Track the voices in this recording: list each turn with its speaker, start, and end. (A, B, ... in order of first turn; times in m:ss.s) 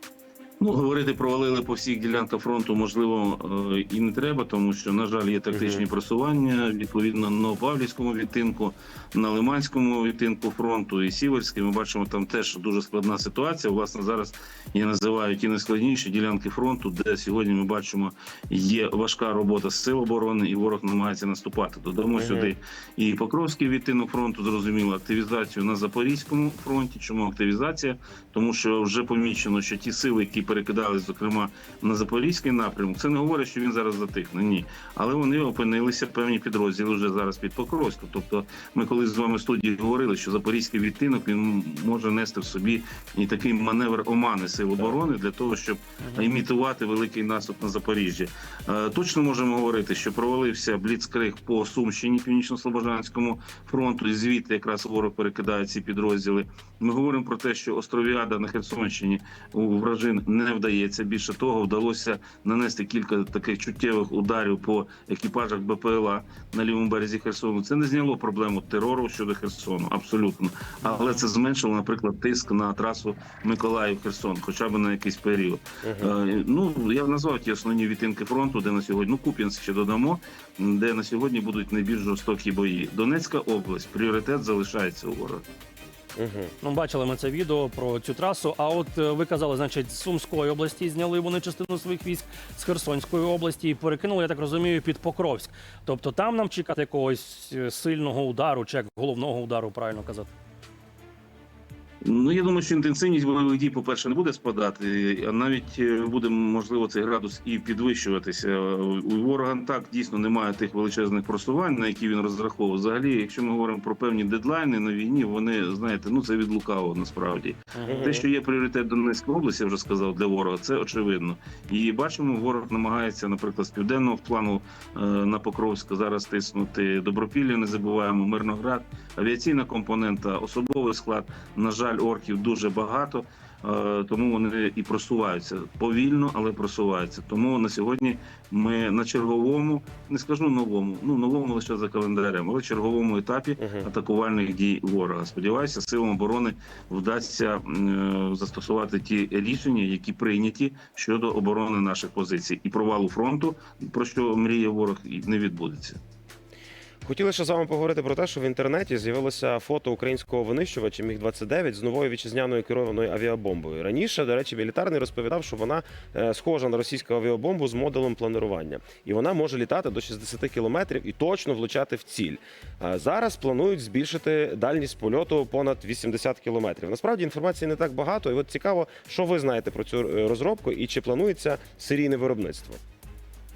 0:00.6-1:25.4 A
0:05.5-0:05.8 B
0:22.2-0:22.5 B
0:46.0-0:46.3 C
1:15.8-1:16.1 B
1:26.2-1:26.5 B
1:26.6-1:40.3 C
1:42.0-2:36.0 A
1:57.8-1:58.2 C
1:57.8-1:58.3 B
2:23.6-2:23.9 B
2:37.0-3:02.8 B